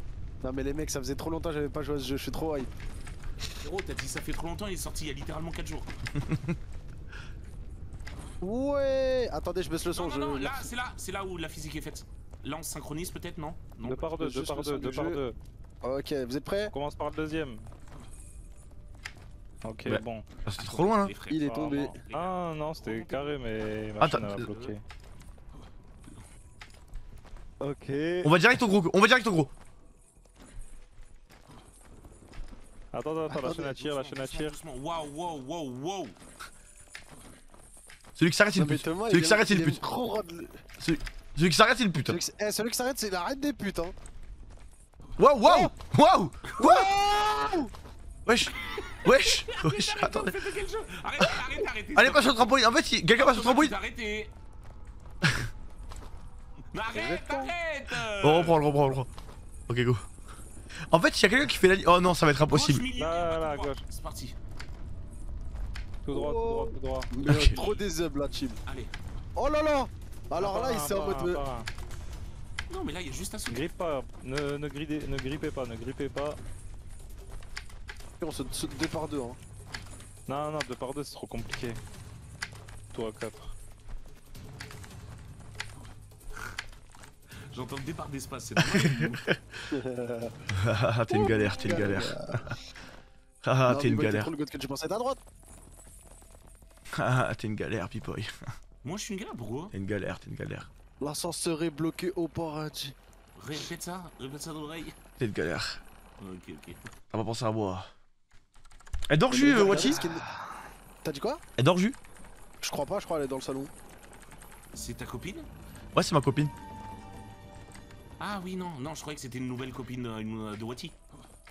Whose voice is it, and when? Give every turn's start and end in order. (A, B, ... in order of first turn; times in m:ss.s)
0:00.4-0:02.7 A
0:03.6-0:05.9 B
0:06.1-0:06.5 C
0:08.4-0:10.7 A
0:09.9-0:14.1 B
0:13.8-0:15.4 D
0:14.1-0:15.2 A
0:15.8-0:16.7 A
0:16.7-0:17.7 D
0:19.6-0:20.2 D
0:19.8-0:21.1 C
0:20.6-0:23.4 B
0:21.3-0:21.9 A
0:21.4-0:24.8 D
0:24.0-0:24.4 C
0:24.1-0:24.7 B
0:27.6-0:28.3 D
0:28.2-0:29.5 C
0:32.9-0:34.6 D
0:33.3-0:33.7 A
0:33.6-0:36.2 B
0:38.2-0:39.8 C
0:38.5-0:40.6 A
0:40.8-0:42.2 C
0:42.0-0:43.9 A
0:45.2-0:46.9 C
0:45.4-0:45.7 A
0:46.6-0:47.7 A
0:48.2-0:50.4 C
0:48.7-0:52.5 B
0:51.9-0:53.7 C
0:53.2-0:54.3 B
0:55.2-0:55.5 C
0:56.7-0:58.6 B
0:56.9-0:57.5 A
0:58.2-0:59.1 C
0:59.7-1:00.0 C
1:00.9-1:02.8 C
1:02.5-1:04.4 B
1:03.0-1:03.8 D
1:06.0-1:07.1 D
1:06.1-1:08.6 A
1:07.2-1:07.6 C
1:07.5-1:07.9 B
1:08.6-1:08.9 B
1:09.4-1:11.4 A
1:10.4-1:11.7 D
1:12.7-1:13.7 B
1:13.5-1:16.4 D
1:18.2-1:19.4 A
1:20.3-1:21.8 D
1:22.9-1:23.5 D
1:27.5-1:29.2 B
1:28.6-1:29.6 C
1:29.7-1:30.3 A
1:30.5-1:32.5 C
1:31.1-1:32.6 A
1:33.4-1:34.3 C
1:33.7-1:35.2 A
1:36.9-1:38.4 C
1:38.8-1:39.7 B
1:39.7-1:40.7 C
1:41.0-1:42.9 A
1:43.4-1:45.0 B
1:45.2-1:45.8 C
1:46.2-1:46.9 B
1:47.1-1:47.9 C
1:49.1-1:50.0 C
1:49.3-1:50.2 A
1:49.5-1:50.1 B
1:51.0-1:51.4 A
1:51.6-1:52.0 C
1:52.6-1:53.7 A
1:54.7-1:55.5 B
1:55.9-1:56.5 C
1:58.2-2:00.9 B